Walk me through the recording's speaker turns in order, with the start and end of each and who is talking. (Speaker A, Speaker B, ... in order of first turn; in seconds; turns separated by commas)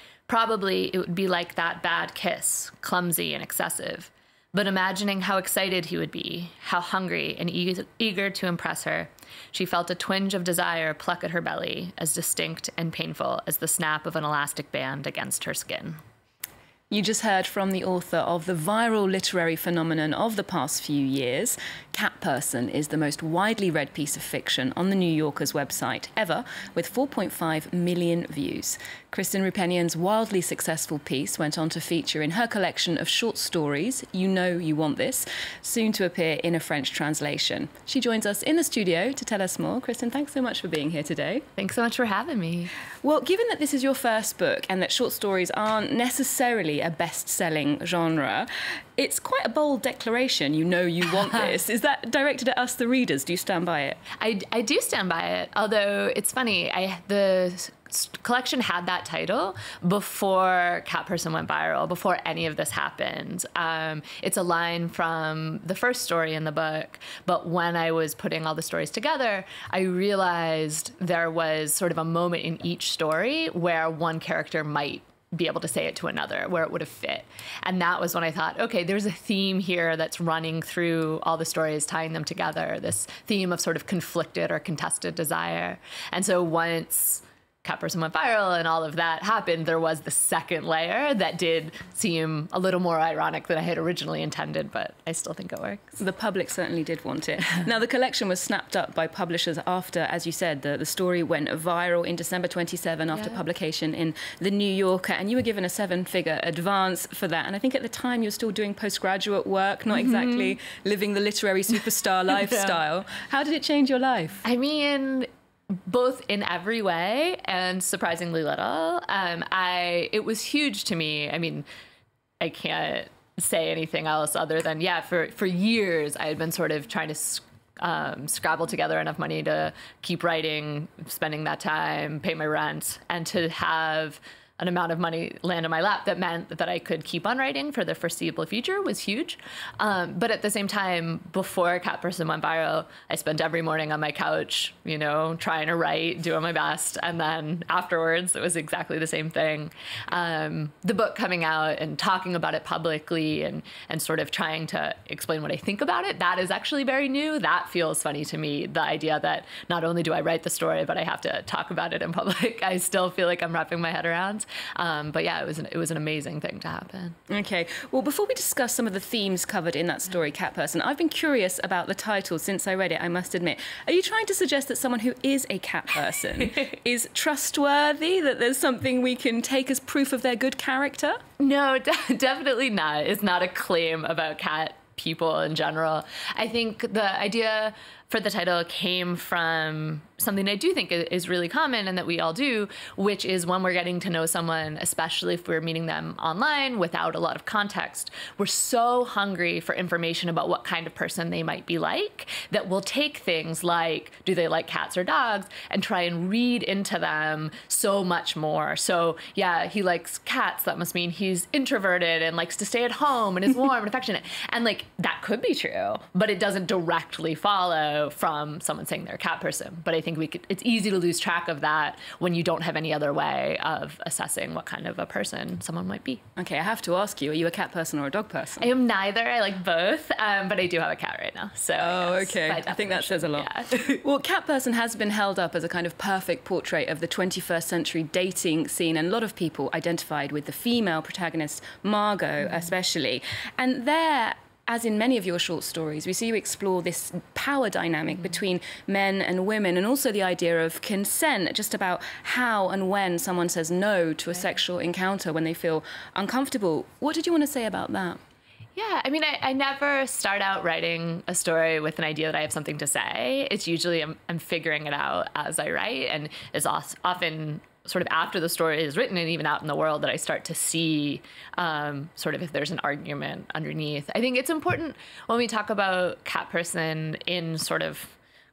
Speaker A: 0.3-16.0, Speaker B: 16.9-41.4, Speaker A: 41.6-42.7, Speaker B: 43.0-54.0, Speaker A: 54.2-96.0, Speaker B: 96.0-114.4, Speaker A: 103.1-103.4, Speaker A: 109.9-110.6, Speaker A: 112.5-112.7, Speaker A: 114.4-115.3, Speaker A: 115.8-121.6, Speaker A: 122.4-167.2, Speaker B: 167.3-181.2, Speaker A: 181.4-226.2, Speaker B: 226.4-228.7, Speaker A: 228.6-234.0, Speaker B: 231.8-258.2, Speaker A: 258.8-278.2